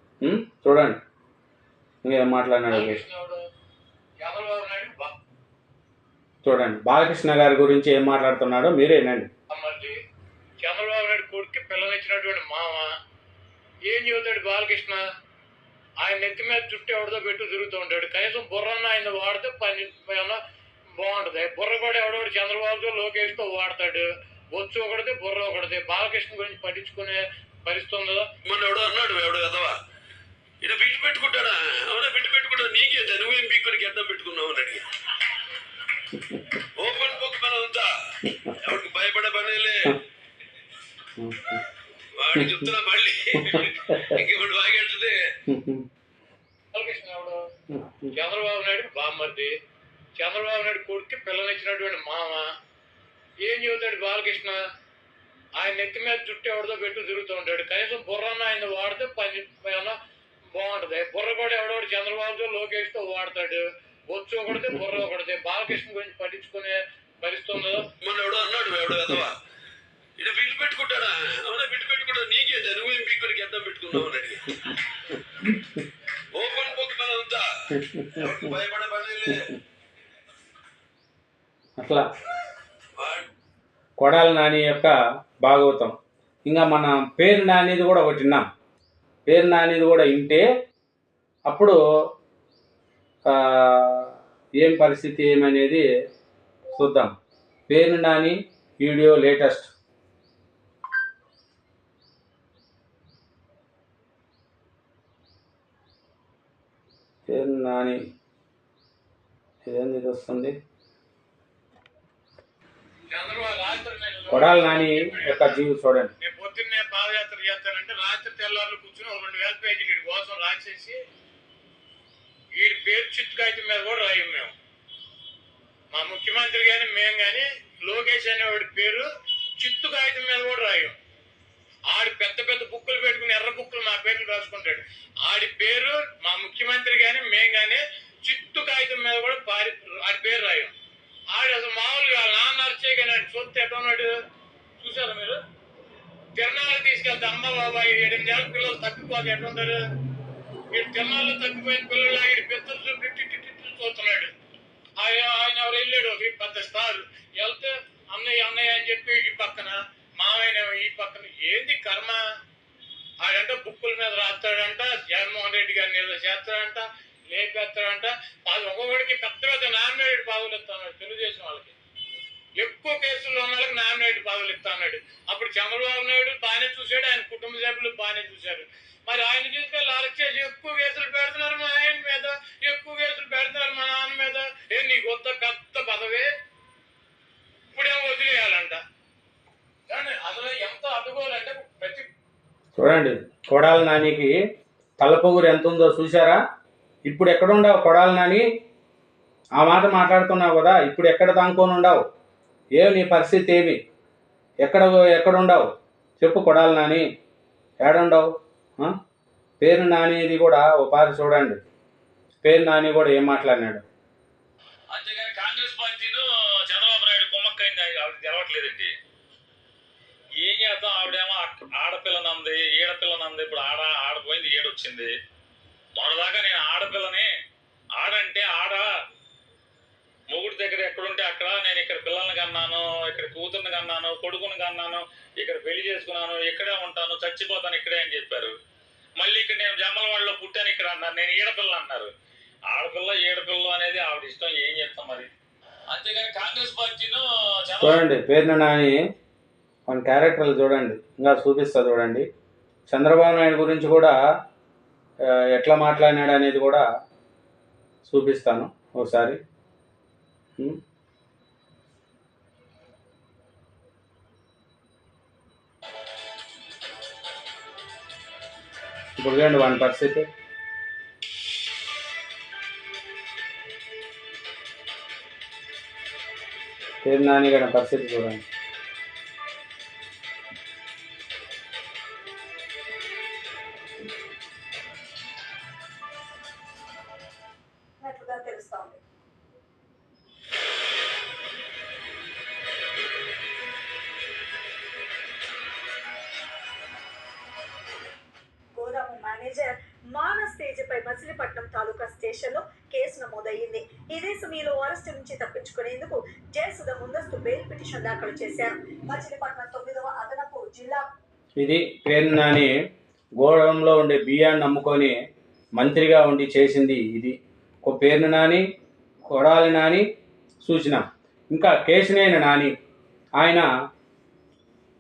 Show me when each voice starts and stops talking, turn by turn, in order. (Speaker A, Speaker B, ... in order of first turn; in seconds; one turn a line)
Speaker A: 0.2-1.0
Speaker A: 2.0-3.0
Speaker B: 2.7-3.4
Speaker B: 4.2-5.2
Speaker A: 6.4-9.3
Speaker B: 9.5-10.0
Speaker B: 10.6-12.9
Speaker B: 13.9-15.0
Speaker B: 16.0-20.4
Speaker B: 21.0-28.3
Speaker C: 28.4-29.8
Speaker C: 30.6-34.8
Speaker C: 36.8-39.9
Speaker A: 41.2-41.6
Speaker C: 42.1-45.2
Speaker A: 43.5-44.1
Speaker A: 45.5-45.8
Speaker B: 46.7-47.4
Speaker A: 47.7-48.1
Speaker B: 48.1-49.5
Speaker B: 50.2-52.5
Speaker B: 53.5-54.6
Speaker B: 55.6-60.0
Speaker B: 60.5-67.9
Speaker C: 68.0-69.4
Speaker C: 70.2-74.7
Speaker C: 76.3-79.5
Speaker A: 81.8-82.1
Speaker C: 83.0-83.3
Speaker A: 84.0-88.5
Speaker A: 89.3-90.4
Speaker A: 91.5-91.8
Speaker A: 93.3-95.8
Speaker A: 96.8-97.1
Speaker A: 97.7-99.7
Speaker A: 107.3-108.0
Speaker A: 109.7-110.5
Speaker B: 113.1-115.6
Speaker A: 114.3-116.1
Speaker B: 116.2-121.0
Speaker B: 122.5-124.5
Speaker B: 125.9-129.1
Speaker B: 129.6-131.0
Speaker B: 131.9-140.7
Speaker B: 141.3-144.1
Speaker B: 144.8-145.4
Speaker B: 146.4-149.8
Speaker B: 150.7-154.3
Speaker B: 155.0-162.2
Speaker B: 163.2-171.8
Speaker B: 172.6-186.3
Speaker B: 187.7-188.8
Speaker B: 189.9-192.1
Speaker A: 192.8-194.3
Speaker A: 195.0-196.4
Speaker A: 197.1-198.4
Speaker A: 199.6-202.0
Speaker A: 202.8-203.8
Speaker A: 204.6-205.7
Speaker A: 206.2-207.1
Speaker A: 207.8-208.9
Speaker A: 209.6-211.6
Speaker A: 212.4-213.8
Speaker D: 214.9-218.9
Speaker D: 220.4-225.1
Speaker D: 226.0-227.3
Speaker D: 228.0-228.9
Speaker D: 230.3-238.5
Speaker D: 239.2-242.1
Speaker D: 242.7-245.3
Speaker D: 245.9-248.0
Speaker A: 247.8-249.0
Speaker A: 249.9-252.3
Speaker A: 252.9-254.2
Speaker A: 255.3-256.8
Speaker A: 258.1-259.4
Speaker A: 269.2-270.3
Speaker A: 277.0-278.4
Speaker E: 288.0-289.0
Speaker E: 298.8-311.1
Speaker A: 311.6-312.7
Speaker A: 313.4-315.2
Speaker A: 315.8-318.6
Speaker A: 319.3-320.1
Speaker A: 320.6-322.7
Speaker A: 323.4-323.7